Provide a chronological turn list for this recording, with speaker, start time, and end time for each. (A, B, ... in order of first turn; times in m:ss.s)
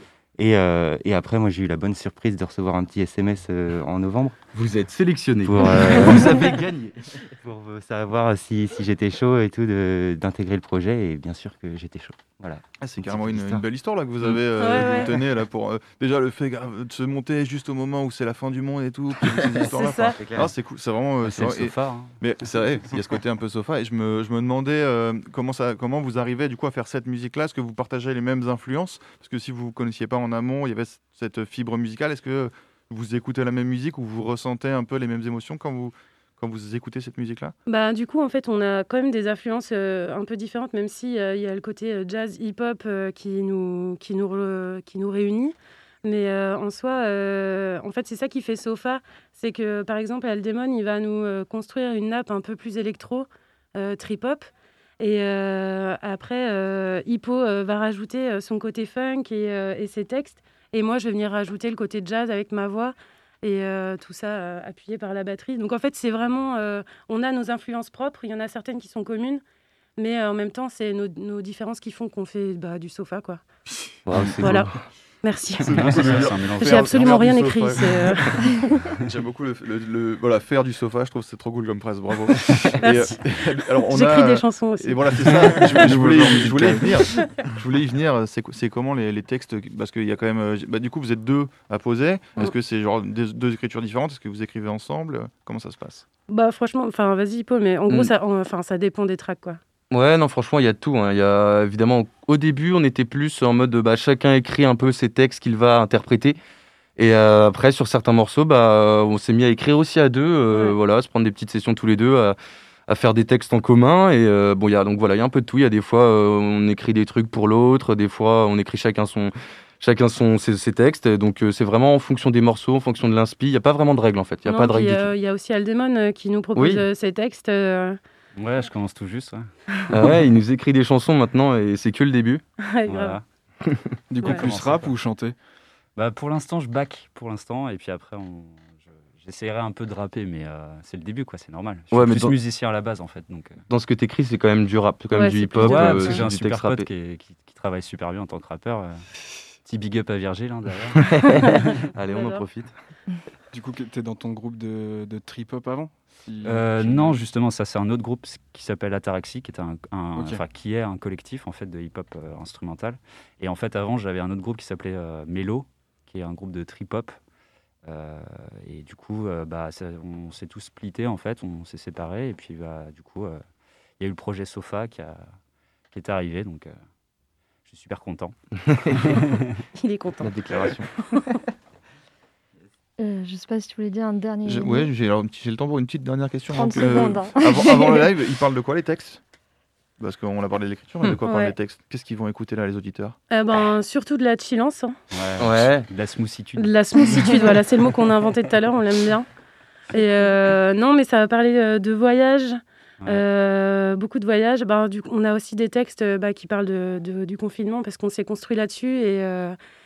0:00.4-0:04.4 A
0:04.5-0:06.6 B
0:05.4-0:13.6 A
0:12.8-0:37.5 C
0:14.6-0:15.1 D
0:19.8-0:20.1 D
0:20.2-0:20.5 A
0:21.2-0:22.1 E
0:37.7-0:54.5 D
0:55.0-1:09.4 D
1:10.0-1:13.4 D
1:14.0-1:14.8 B
1:14.4-1:18.2 D
1:15.6-1:18.1 C
1:15.7-1:18.4 E
1:19.0-1:36.0 C
1:22.8-1:23.2 D
1:23.8-1:25.8 D
1:25.7-1:26.9 F
1:36.3-1:39.6 D
1:39.9-1:46.4 B
1:47.0-1:52.4 B
1:50.5-1:50.8 D
1:52.9-2:05.1 B
2:04.4-2:08.0 D
2:06.5-2:06.8 B
2:08.4-2:09.5 E
2:09.9-2:12.4 B
2:12.7-2:13.2 D
2:12.8-2:13.2 E
2:14.1-2:15.4 F
2:14.2-2:15.0 E
2:16.0-2:23.6 E
2:21.9-2:22.4 B
2:23.7-2:26.9 B
2:25.1-2:26.2 D
2:25.6-2:29.0 E
2:29.6-2:31.6 E
2:31.9-2:32.7 B
2:32.1-2:32.4 D
2:33.5-2:37.2 F
2:36.4-2:47.2 E
2:40.1-2:40.4 F
2:47.8-2:53.4 E
2:54.0-2:55.3 E
2:55.9-2:56.7 E
2:57.6-2:58.3 E
2:59.1-2:59.5 E
2:59.8-3:00.7 D
3:00.2-3:00.9 B
3:03.0-3:04.9 G
3:04.4-3:09.2 C
3:06.5-3:08.1 G
3:10.0-3:13.2 C
3:11.2-3:11.5 D
3:13.3-3:15.0 D
3:15.1-3:17.5 E
3:15.4-3:15.9 B
3:16.6-3:19.3 D
3:19.9-3:29.6 D